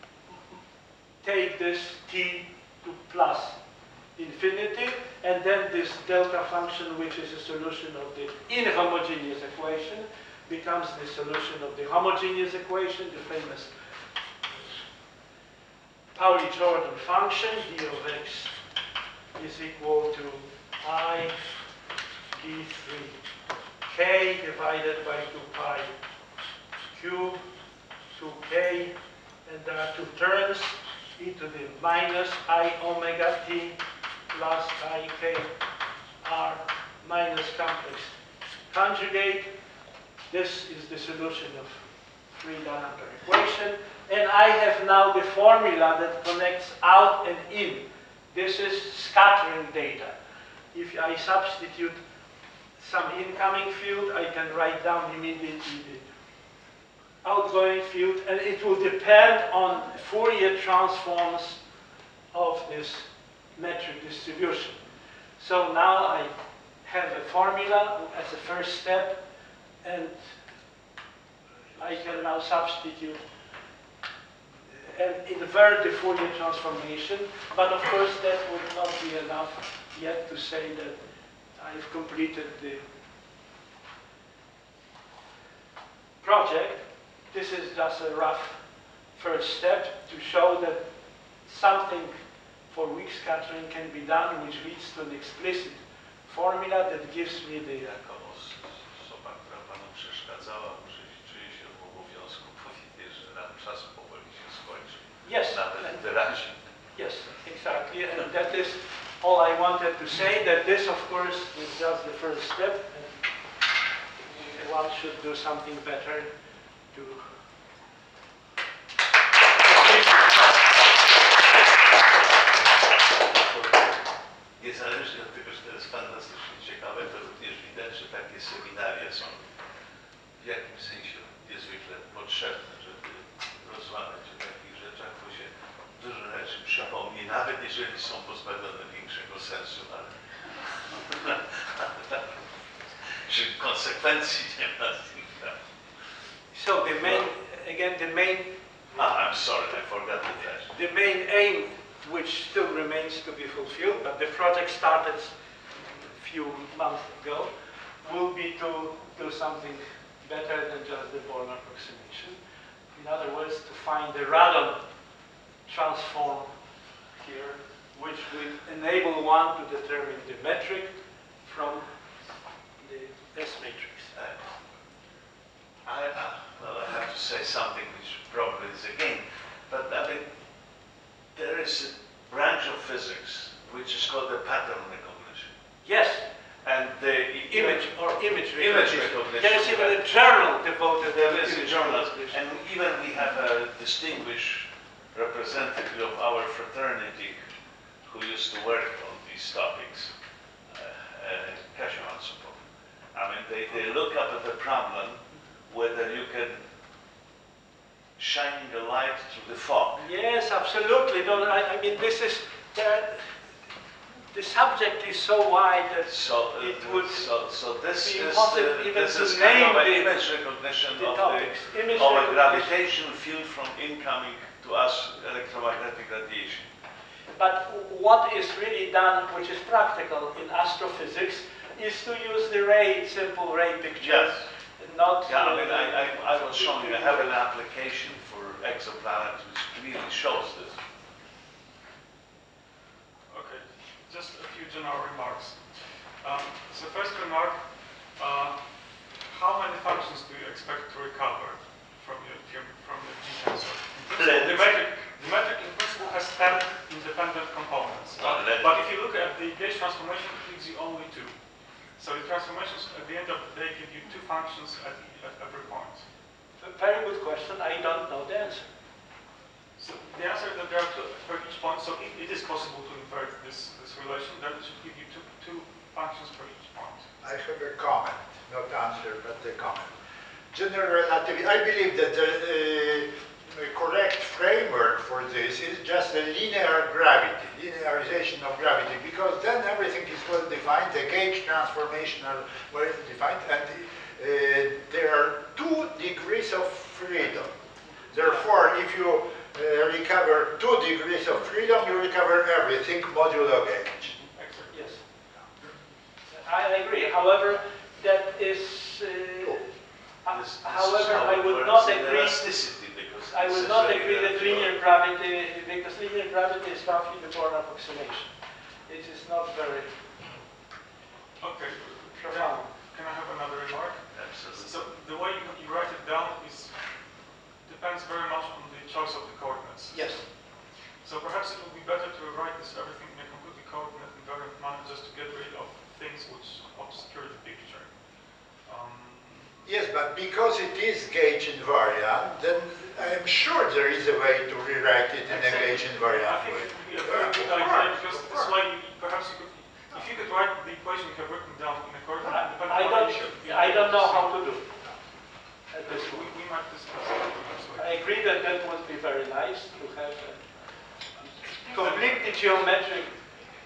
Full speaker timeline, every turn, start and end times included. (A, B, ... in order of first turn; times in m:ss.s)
0:01.2-0:03.6 A
0:04.2-0:13.7 A
0:16.1-0:18.5 A
0:19.4-0:21.4 A
0:22.3-0:23.2 A
0:23.8-0:25.9 A
0:26.9-0:27.4 A
0:28.1-0:28.9 A
0:29.4-0:33.8 A
0:34.3-0:35.5 A
0:36.2-0:38.1 A
0:38.7-0:39.5 A
0:40.3-0:50.2 A
0:50.7-0:52.0 A
0:52.8-0:56.1 A
0:57.2-1:01.6 A
1:02.3-1:04.8 A
1:05.4-1:06.3 A
1:06.8-1:09.2 A
1:09.8-1:10.4 A
1:11.8-1:13.2 A
1:14.7-1:21.0 A
1:21.6-1:22.8 A
1:26.2-1:28.6 A
1:29.1-1:30.9 A
1:31.4-1:32.2 A
1:32.7-1:37.9 A
1:37.8-1:46.6 B
1:45.2-1:46.0 A
1:46.9-1:53.2 A
1:54.2-1:56.3 A
1:56.9-1:57.3 A
1:59.6-2:00.5 A
2:03.2-2:03.9 B
2:04.6-2:09.4 B
2:10.4-2:22.3 B
2:23.2-2:25.6 B
2:26.5-2:28.5 A
2:27.0-2:27.3 B
2:29.0-2:30.7 B
2:30.7-2:35.3 A
2:35.9-2:37.5 A
2:38.0-2:42.4 A
2:42.9-2:44.8 A
2:45.7-2:46.5 A
2:47.2-2:50.9 A
2:51.4-2:51.9 A
2:52.8-2:54.1 A
2:54.1-2:54.4 B
2:55.8-3:00.3 B
3:01.3-3:05.5 B
3:05.8-3:06.2 A
3:06.6-3:07.9 B
3:07.5-3:12.4 A
3:08.5-3:10.0 B
3:11.0-3:17.4 B
3:18.1-3:20.1 B
3:20.7-3:26.6 B
3:28.2-3:30.0 B
3:30.0-3:33.4 A
3:34.3-3:37.3 A
3:36.1-3:46.7 B
3:38.0-3:40.1 A
3:40.9-3:42.7 A
3:47.4-3:57.4 A
3:54.0-3:54.4 B
3:55.2-4:00.8 B
4:03.3-4:05.7 C
4:06.2-4:26.0 C
4:14.1-4:14.8 B
4:18.2-4:18.8 B
4:26.6-4:28.6 A
4:29.8-4:37.0 C
4:37.2-4:39.9 D
4:40.5-5:04.1 D
5:04.1-5:04.8 C
5:04.7-5:05.0 A
5:06.3-5:09.7 A
5:10.2-5:12.5 A
5:10.3-5:14.7 B
5:13.3-5:18.3 A
5:18.9-5:19.9 A
5:21.4-5:26.9 C
5:22.2-5:22.7 A
5:24.1-5:24.8 B
5:27.6-5:30.4 C
5:29.9-5:30.2 A
5:31.0-5:38.0 C
5:38.6-5:39.5 C
5:39.6-5:47.8 D
5:45.3-5:54.4 C
5:47.2-5:48.6 A
5:52.2-5:54.7 A
5:55.7-5:56.3 A
5:55.8-5:58.0 C
5:57.7-6:00.4 A
6:01.6-6:03.1 A
6:01.7-6:02.3 C